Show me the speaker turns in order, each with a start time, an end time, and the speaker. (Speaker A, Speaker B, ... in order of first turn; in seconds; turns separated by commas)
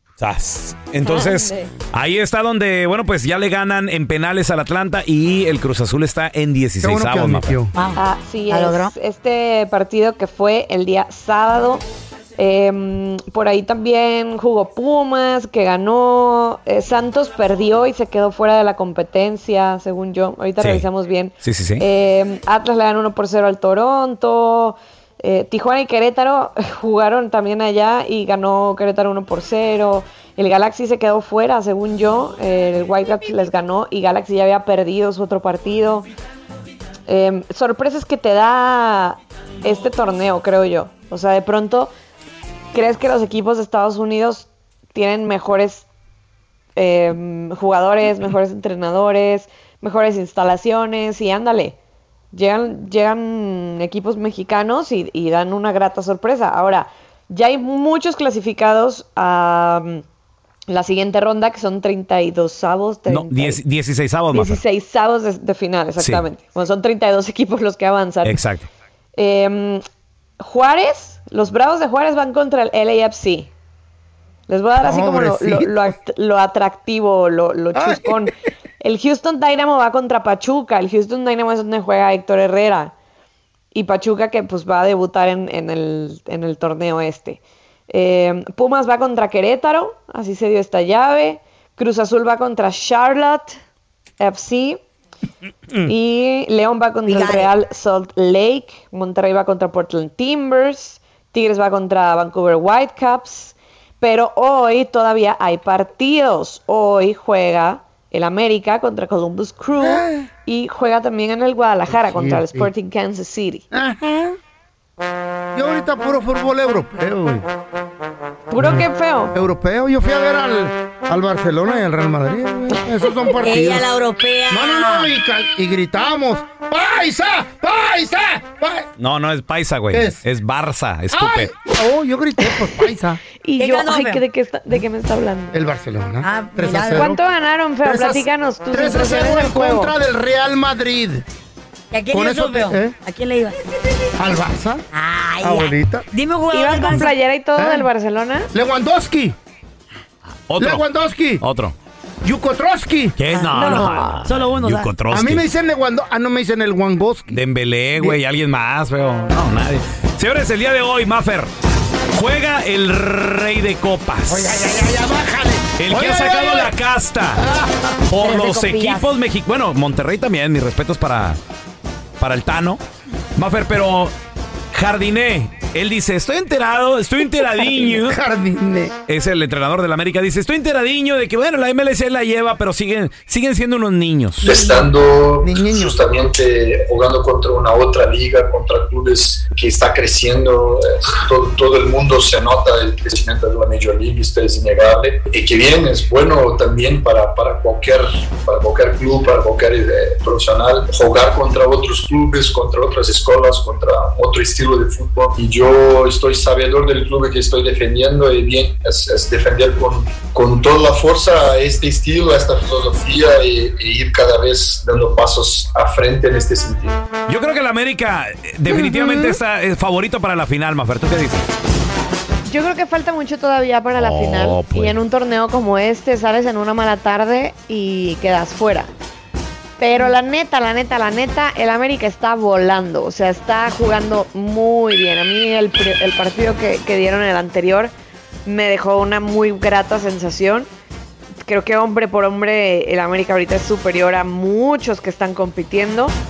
Speaker A: 0.2-7.6, Speaker B: 1.1-1.7, Speaker C: 6.8-7.7, Speaker D: 7.7-8.9, Speaker B: 8.0-11.8, Speaker B: 12.4-36.1, Speaker A: 20.6-20.9, Speaker A: 21.4-21.9, Speaker B: 37.1-41.9, Speaker B: 42.7-45.9, Speaker B: 46.8-51.7, Speaker B: 52.3-60.0, Speaker B: 60.7-63.6, Speaker A: 63.1-64.6, Speaker B: 64.3-68.4, Speaker A: 66.0-66.2, Speaker A: 68.2-68.7, Speaker B: 69.2-69.8, Speaker B: 70.4-73.5, Speaker B: 74.5-82.9, Speaker C: 74.8-75.8, Speaker C: 77.7-78.3, Speaker B: 83.7-93.5, Speaker B: 94.2-94.8, Speaker B: 95.8-113.6, Speaker D: 97.0-97.5, Speaker C: 109.8-110.3, Speaker C: 112.0-112.7, Speaker C: 113.7-114.4, Speaker C: 115.5-117.4, Speaker B: 118.5-119.3, Speaker C: 118.6-123.9, Speaker D: 123.3-125.1, Speaker C: 124.5-128.9, Speaker A: 129.0-131.5, Speaker C: 129.9-130.2, Speaker C: 131.1-133.2, Speaker B: 133.4-135.6, Speaker D: 133.5-134.2, Speaker C: 135.5-137.2, Speaker D: 136.2-137.2, Speaker B: 137.0-139.9, Speaker C: 137.8-141.2, Speaker D: 141.9-144.0, Speaker C: 142.1-142.9, Speaker C: 144.2-144.8, Speaker D: 144.9-147.2, Speaker C: 145.4-146.1, Speaker B: 146.5-148.5, Speaker C: 147.6-147.9, Speaker C: 148.5-149.3, Speaker A: 150.5-150.8, Speaker C: 150.6-151.4, Speaker A: 151.4-151.7, Speaker C: 152.2-153.2, Speaker A: 153.2-155.4, Speaker D: 153.3-154.9, Speaker C: 155.1-157.4, Speaker A: 157.3-161.5, Speaker A: 162.1-164.6, Speaker C: 164.3-166.7, Speaker A: 165.8-167.5, Speaker C: 167.4-167.9, Speaker A: 168.1-171.4, Speaker D: 168.2-169.1, Speaker A: 172.2-172.8, Speaker A: 173.3-174.1, Speaker A: 174.7-178.2, Speaker C: 178.0-178.9, Speaker A: 179.1-184.5, Speaker E: 184.4-216.9, Speaker C: 185.4-185.9, Speaker A: 217.3-221.5, Speaker C: 218.7-219.3, Speaker B: 222.5-228.9, Speaker A: 223.9-225.0, Speaker B: 229.8-237.9, Speaker B: 238.4-240.7, Speaker B: 241.5-246.1